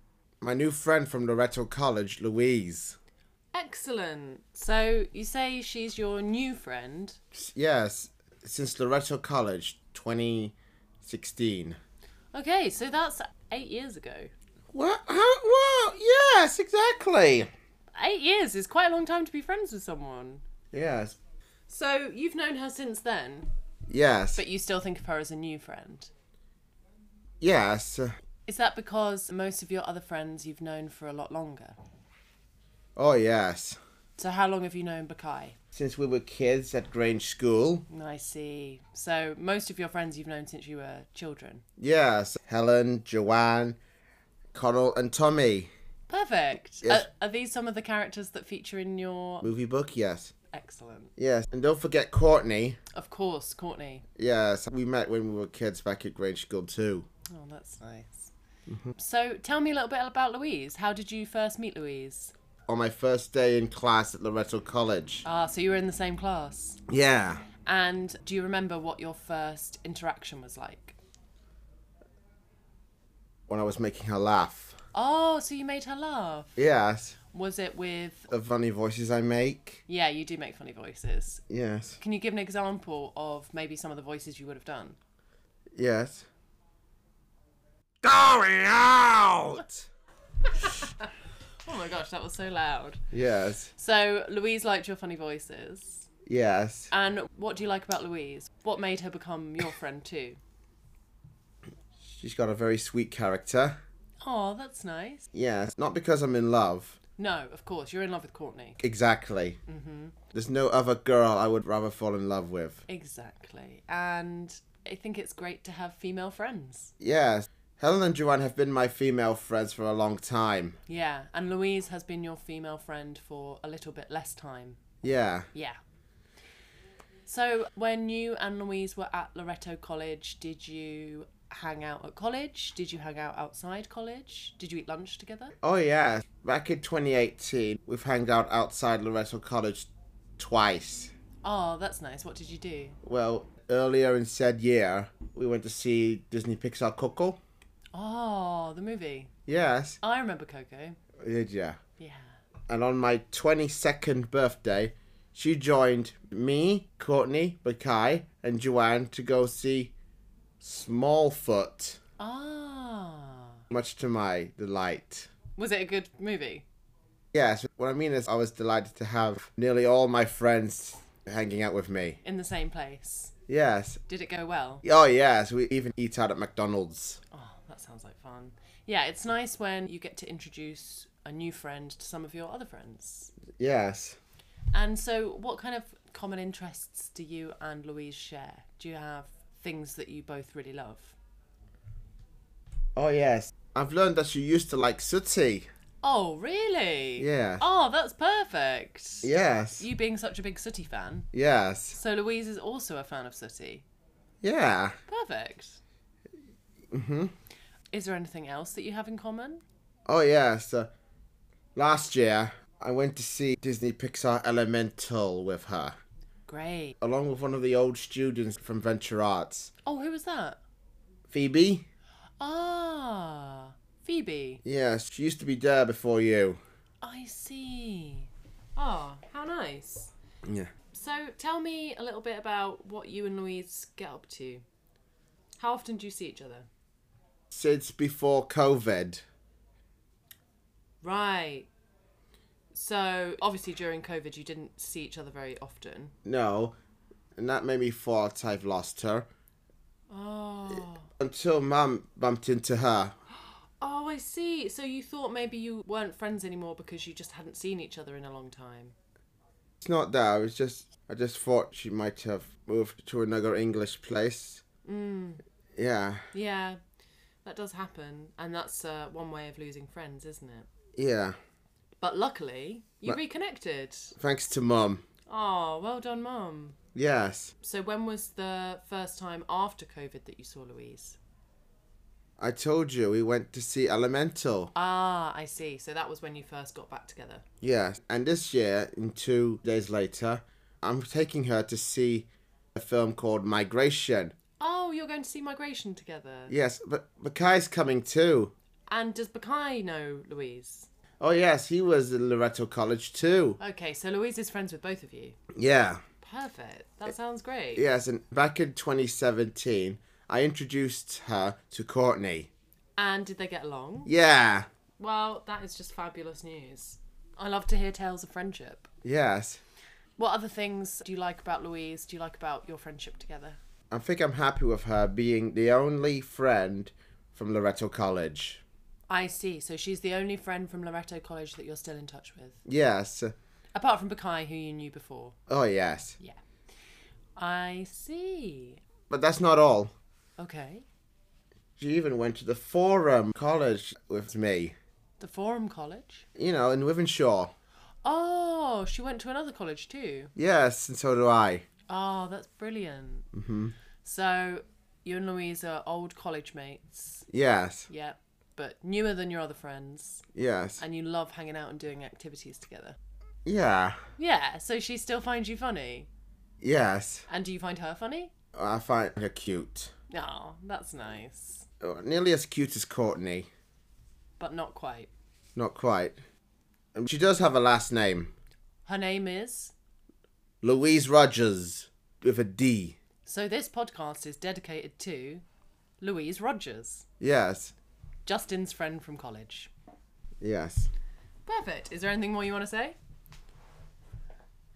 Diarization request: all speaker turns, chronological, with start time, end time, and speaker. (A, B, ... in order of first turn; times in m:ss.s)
0:00.4-0:03.0 A
0:03.5-0:07.2 B
0:07.3-0:11.8 A
0:12.3-0:14.3 B
0:14.7-0:17.5 A
0:17.9-0:20.4 B
0:20.7-0:21.2 A
0:21.7-0:23.5 B
0:23.9-0:24.4 A
0:24.4-0:26.1 B
0:27.4-0:28.1 A
0:28.5-0:31.8 B
0:33.0-0:33.8 A
0:34.2-0:35.6 B
0:35.7-0:37.8 A
0:37.9-0:41.6 B
0:41.8-0:43.8 A
0:44.5-0:45.7 A
0:46.1-0:49.4 B
0:49.4-0:50.3 A
0:50.5-0:51.1 B
0:51.2-0:52.8 A
0:52.9-0:54.0 B
0:54.2-0:57.1 A
0:57.3-0:58.3 B
0:58.7-0:58.9 A
0:59.0-1:02.3 B
1:02.7-1:05.2 A
1:05.2-1:06.8 B
1:06.9-1:07.4 A
1:07.6-1:11.0 B
1:13.5-1:14.8 A
1:14.9-1:16.6 B
1:16.6-1:17.2 A
1:17.3-1:18.3 B
1:18.3-1:19.8 A
1:19.9-1:21.4 B
1:21.5-1:22.0 A
1:22.0-1:25.0 B
1:25.7-1:26.3 A
1:28.0-1:29.9 A
1:30.4-1:31.1 B
1:31.6-1:33.0 B
1:33.1-1:33.7 A
1:33.7-1:36.1 B
1:36.2-1:36.9 A
1:36.9-1:40.4 B
1:42.0-1:43.8 A
1:44.2-1:45.3 B
1:45.3-1:47.0 A
1:47.2-1:48.8 B
1:48.8-1:49.6 A
1:49.7-1:50.1 B
1:50.3-1:52.8 A
1:52.9-1:56.9 B
1:57.0-2:00.8 A
2:00.9-2:04.8 B
2:05.0-2:05.5 A
2:05.5-2:05.8 B
2:07.2-2:15.5 B
2:15.6-2:21.1 A
2:21.4-2:23.0 B
2:23.0-2:27.4 A
2:27.9-2:29.3 B
2:29.5-2:30.0 A
2:30.0-2:31.0 B
2:31.2-2:31.8 A
2:32.0-2:32.4 B
2:32.7-2:39.9 A
2:40.6-2:42.0 A
2:42.2-2:43.6 B
2:43.7-2:45.3 A
2:45.6-2:46.6 B
2:47.3-2:52.2 A
2:52.2-2:53.3 B
2:53.5-2:54.0 A
2:54.1-2:54.8 B
2:54.8-2:57.2 A
2:57.3-3:03.3 B
3:03.6-3:04.2 A
3:04.7-3:11.2 B
3:13.0-3:15.7 A
3:16.0-3:21.3 B
3:17.2-3:17.6 A
3:19.2-3:19.8 A
3:21.3-3:22.0 A
3:21.9-3:23.8 B
3:24.4-3:25.0 A
3:25.1-3:25.8 B
3:26.9-3:27.3 A
3:27.9-3:29.6 B
3:30.0-3:30.9 A
3:31.7-3:36.0 A
3:36.5-3:37.0 B
3:37.0-3:39.7 A
3:39.8-3:40.6 B
3:41.3-3:41.8 A
3:42.4-3:44.6 B
3:44.6-3:46.6 A
3:47.0-3:50.1 B
3:50.4-3:50.7 A
3:50.9-3:54.6 B
3:55.6-3:56.7 B
3:57.5-3:59.2 A
4:01.0-4:01.7 B
4:02.7-4:06.1 B
4:06.2-4:06.8 A
4:07.4-4:09.3 A
4:10.1-4:11.1 B
4:11.2-4:13.2 A
4:13.8-4:19.0 B
4:19.8-4:24.6 A
4:24.8-4:25.4 B
4:25.7-4:26.2 A
4:26.3-4:26.8 B
4:27.4-4:30.7 B
4:31.0-4:31.4 A
4:32.0-4:34.2 B
4:34.2-4:35.0 A
4:35.3-4:36.8 B
4:36.9-4:37.5 A
4:37.6-4:41.2 B
4:42.4-4:44.7 A
4:44.7-4:47.4 B
4:47.6-4:54.3 A
4:54.6-4:56.5 B
4:56.5-4:58.5 A
4:58.9-5:00.9 B
5:01.2-5:03.6 A
5:03.6-5:05.4 B
5:05.5-5:06.0 A
5:06.2-5:07.8 B
5:07.8-5:12.5 A
5:13.0-5:14.1 B
5:14.0-5:14.7 A
5:15.0-5:18.9 B
5:19.0-5:19.6 A
5:20.2-5:23.6 B
5:23.9-5:28.6 A
5:29.1-5:32.6 B
5:32.6-5:33.3 A
5:33.7-5:35.4 B
5:35.5-5:36.2 A
5:37.4-5:38.8 B
5:39.1-5:39.9 A
5:40.4-5:40.8 B
5:41.8-5:44.8 A
5:45.2-5:46.2 B
5:46.3-5:47.5 A
5:48.0-5:50.3 B
5:50.4-5:51.6 A
5:51.9-5:53.3 B
5:53.3-5:53.8 A
5:54.0-5:57.2 B
5:57.3-5:57.9 A
5:57.9-6:00.2 B
6:00.3-6:00.8 A
6:00.8-6:03.0 B
6:03.4-6:04.0 A
6:04.2-6:06.1 B
6:06.6-6:07.3 A
6:07.3-6:08.3 B
6:08.5-6:09.9 A
6:10.1-6:11.7 B
6:11.8-6:13.5 A
6:14.4-6:15.1 B
6:15.6-6:16.2 A
6:16.9-6:18.3 A
6:18.8-6:19.7 B
6:20.6-6:23.0 A
6:23.2-6:25.4 B
6:26.0-6:27.0 B
6:27.2-6:27.7 A
6:28.2-6:29.7 B
6:30.4-6:30.9 A
6:31.4-6:33.0 B